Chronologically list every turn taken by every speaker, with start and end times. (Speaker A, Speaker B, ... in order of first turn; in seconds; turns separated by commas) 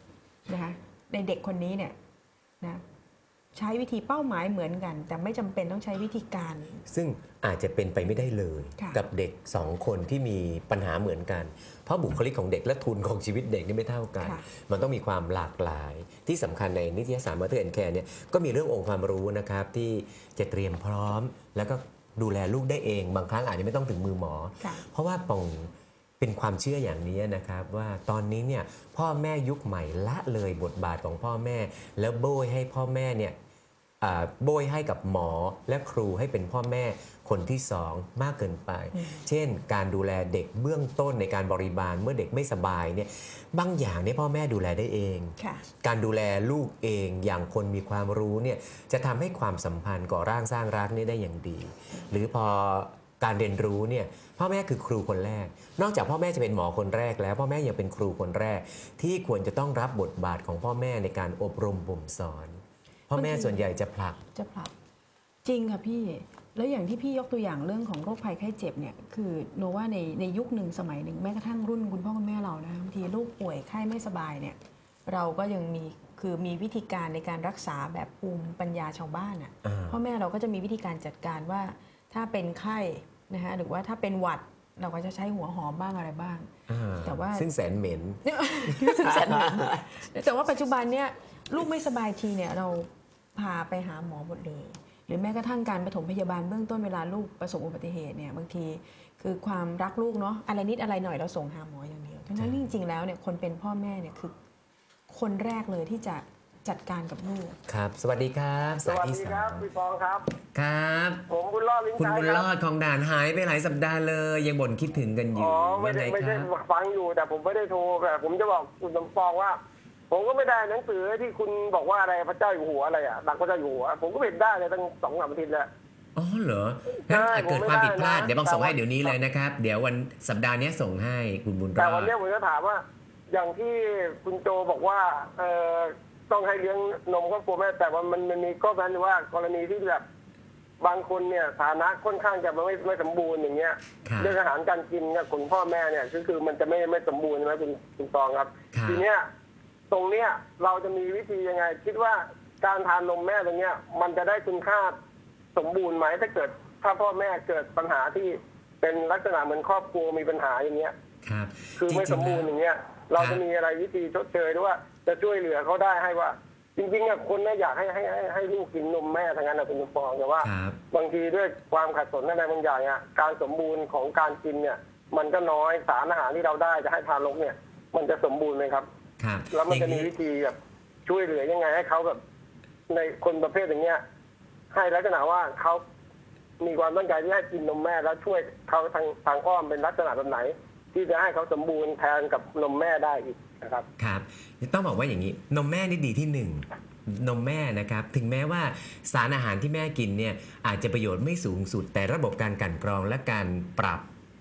Speaker A: 0.5-1.9, Speaker A: 3.5-6.8, Speaker B: 6.9-33.3, Speaker B: 34.0-64.2, Speaker A: 45.4-45.6, Speaker A: 63.1-63.6, Speaker A: 64.3-64.7, Speaker A: 65.4-86.5, Speaker B: 79.6-80.0, Speaker B: 86.7-89.8, Speaker A: 87.0-87.5, Speaker A: 88.2-104.3, Speaker B: 102.3-102.7, Speaker A: 105.1-107.6, Speaker B: 107.7-109.7, Speaker C: 108.8-110.3, Speaker B: 110.5-111.2, Speaker C: 111.3-112.4, Speaker B: 112.0-116.5, Speaker C: 115.3-119.6, Speaker C: 120.1-125.7, Speaker B: 126.2-132.1, Speaker C: 127.0-129.1, Speaker C: 131.8-140.0, Speaker C: 140.8-149.3, Speaker B: 144.0-144.4, Speaker B: 148.7-149.0, Speaker C: 149.9-154.9, Speaker C: 155.5-160.9, Speaker B: 161.2-162.5, Speaker C: 161.8-178.9, Speaker B: 163.2-163.4, Speaker B: 170.4-170.8, Speaker B: 179.2-180.1, Speaker C: 179.5-182.2, Speaker C: 182.9-184.0, Speaker C: 184.7-185.8, Speaker C: 186.6-193.8, Speaker B: 194.0-204.0